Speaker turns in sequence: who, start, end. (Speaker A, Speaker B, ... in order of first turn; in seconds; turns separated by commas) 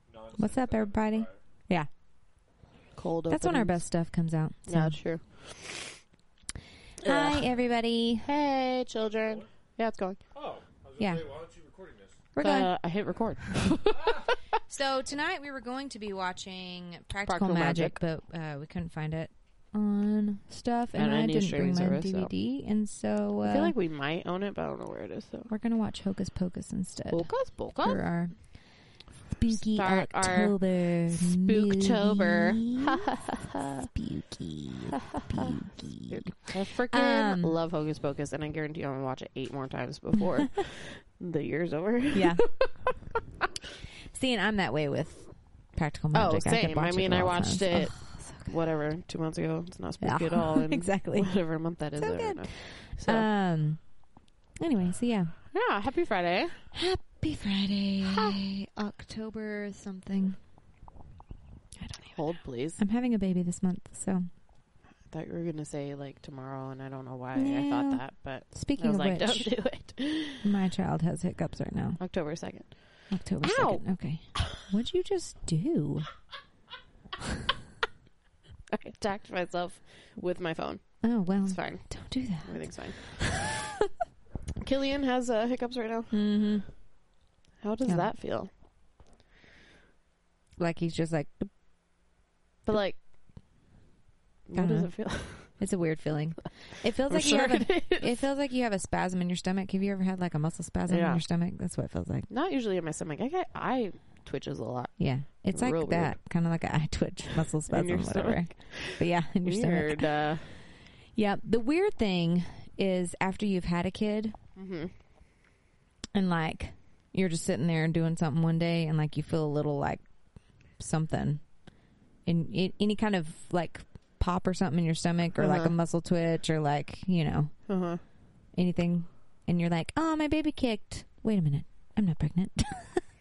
Speaker A: 0.1-1.4, Speaker B: 0.4-1.9, Speaker C: 3.0-3.8, Speaker B: 3.3-5.0, Speaker C: 4.7-6.0, Speaker C: 7.0-7.5, Speaker B: 7.0-8.3, Speaker C: 8.2-10.2, Speaker A: 10.3-12.2, Speaker B: 11.0-11.2, Speaker B: 12.3-12.7, Speaker C: 12.4-14.3, Speaker A: 13.9-14.3, Speaker B: 14.7-23.7, Speaker C: 17.3-18.0, Speaker C: 20.9-22.3, Speaker C: 23.4-25.5, Speaker B: 25.5-28.8, Speaker C: 27.1-28.0, Speaker B: 29.3-33.0, Speaker C: 29.5-33.9, Speaker B: 33.9-37.6, Speaker C: 35.1-35.5, Speaker C: 36.1-42.9, Speaker B: 42.1-42.5, Speaker B: 44.1-48.5, Speaker C: 46.1-53.3, Speaker B: 50.0-51.4, Speaker B: 52.0-54.0, Speaker B: 54.6-55.4, Speaker C: 55.5-56.6, Speaker B: 56.7-60.4, Speaker C: 58.0-58.4, Speaker B: 61.8-64.3, Speaker C: 62.1-62.8, Speaker C: 65.1-70.5, Speaker B: 67.3-69.5, Speaker B: 70.4-72.0, Speaker C: 72.0-74.5, Speaker B: 73.1-76.1, Speaker C: 78.7-83.3, Speaker B: 81.0-83.6, Speaker C: 84.6-86.2, Speaker B: 86.1-86.7, Speaker C: 87.6-88.5, Speaker B: 87.8-88.1, Speaker B: 90.6-91.5, Speaker C: 92.7-93.0, Speaker C: 94.5-95.5, Speaker B: 94.5-102.3, Speaker C: 97.1-98.2, Speaker C: 100.9-101.2, Speaker C: 102.3-106.2, Speaker B: 105.0-110.4, Speaker C: 107.7-110.5, Speaker B: 111.1-114.3, Speaker C: 114.6-114.9, Speaker B: 116.1-120.1, Speaker B: 120.7-121.6, Speaker B: 122.2-127.7, Speaker C: 125.4-125.8, Speaker C: 127.7-128.0, Speaker B: 128.5-133.0